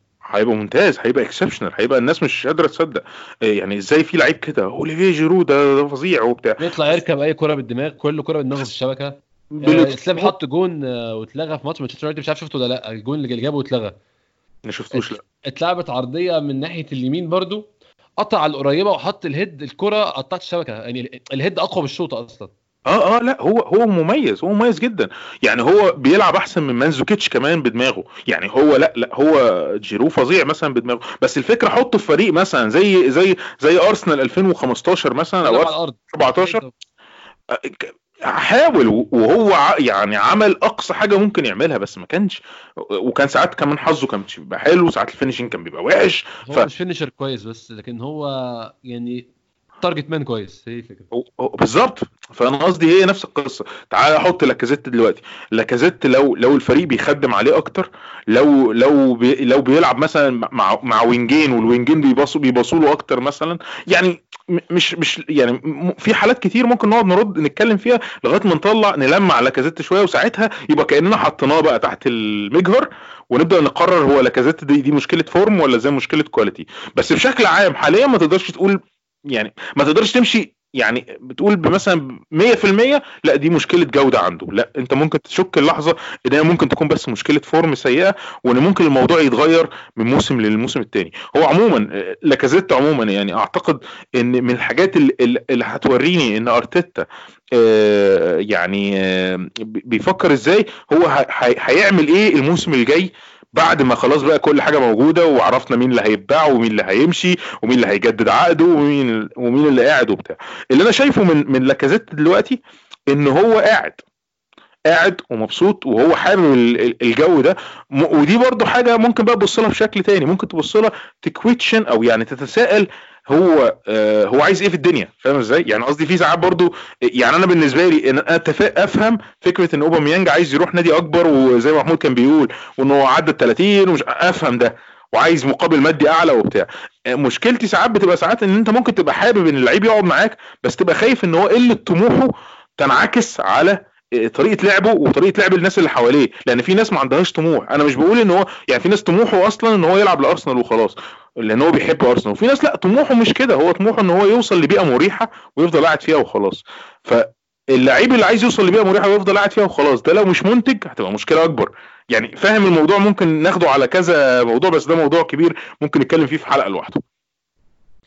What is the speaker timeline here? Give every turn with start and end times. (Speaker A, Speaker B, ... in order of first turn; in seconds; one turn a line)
Speaker A: 0.3-7.0
Speaker B: 6.6-13.9
Speaker A: 9.5-10.3
Speaker A: 14.7-15.2
Speaker B: 14.9-17.7
Speaker B: 18.2-22.5
Speaker A: 22.9-36.6
Speaker B: 35.4-36.7
Speaker A: 37.5-46.7
Speaker B: 46.5-49.3
Speaker B: 49.8-51.1
Speaker A: 51.1-112.6
Speaker A: 113.1-114.0
Speaker A: 114.9-136.7
Speaker A: 137.2-167.0